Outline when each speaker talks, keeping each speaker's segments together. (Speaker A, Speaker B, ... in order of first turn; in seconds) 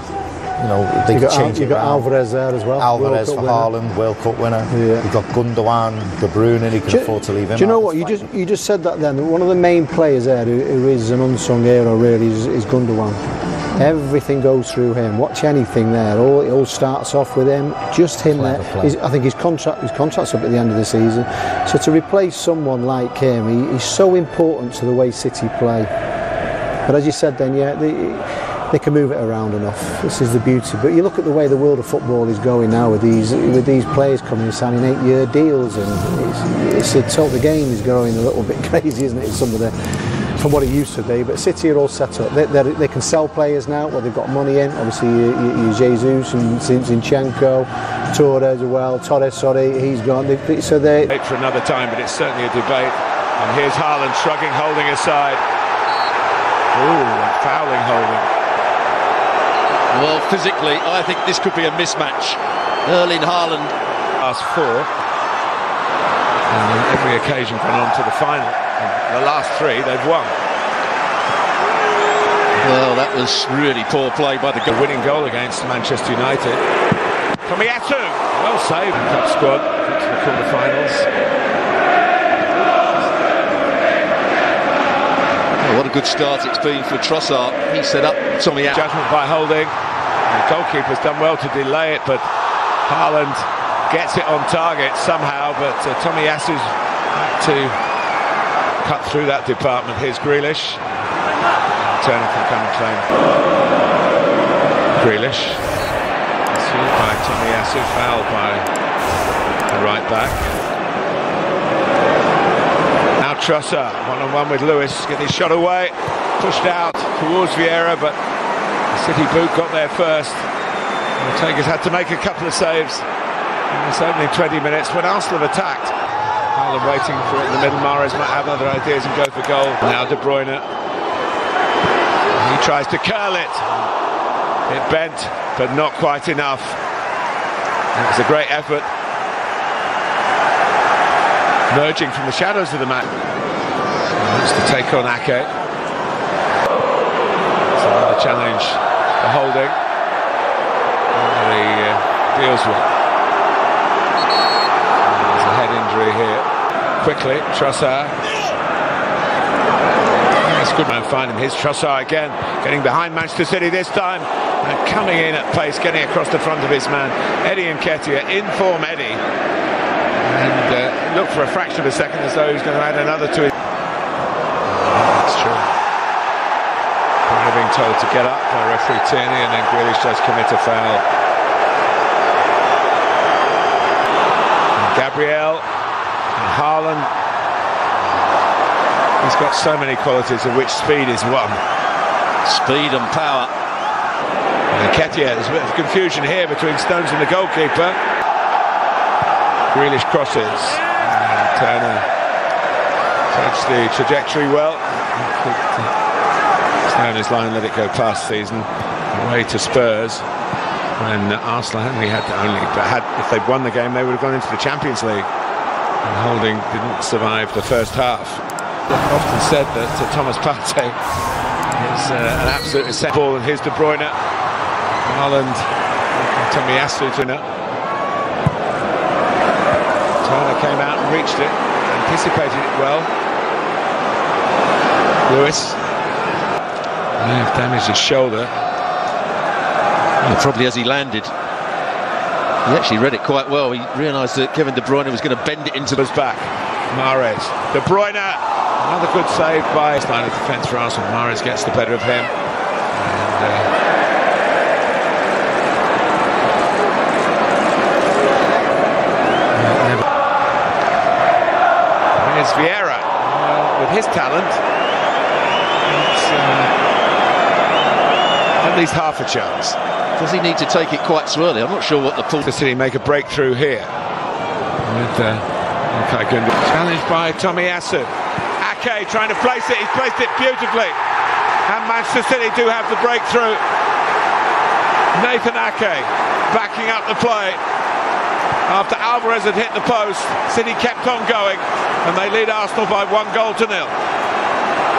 Speaker A: 0.6-2.1, 2.8-8.3, 18.2-18.9
Speaker B: 1.1-3.7, 4.7-5.0, 6.9-13.2, 13.7-25.9, 26.8-39.7, 40.4-51.1
Speaker C: 51.1-55.4, 56.7-58.3, 64.2-64.9, 66.5-70.3, 74.7-76.6, 77.5-81.1, 88.7-89.7, 90.3-92.2, 92.8-97.8, 98.8-100.8, 101.8-103.1, 104.9-105.6, 106.5-108.7, 109.7-110.5, 113.2-118.2, 118.9-120.4, 121.2-123.0, 123.7-125.9, 126.5-130.6, 132.3-133.9, 134.7-136.8, 137.9-138.9, 141.7-143.1, 144.2-145.5, 147.6-149.8, 151.1-152.9, 155.0-156.5, 157.0-158.2, 160.4-169.2, 170.2-173.5, 174.6-175.7, 177.3-181.0, 184.7-185.6, 186.3-187.1, 189.2-191.6, 194.7-198.0, 199.7-202.1, 203.3-205.9, 206.8-210.2, 211.0-215.3, 216.0-220.9, 221.7-224.2, 225.0-227.4, 230.2-233.1, 235.3-235.8, 237.2-238.5, 245.9-252.3, 252.9-253.7, 259.5-260.0, 262.1-264.6, 265.8-266.7, 268.6-269.8, 272.4-273.9, 274.8-281.0, 281.6-283.6, 285.1-287.6, 288.7-293.9
Speaker D: 59.9-63.7, 72.5-74.7, 85.6-88.8, 192.4-193.5, 240.2-241.3, 242.7-246.0, 270.2-272.4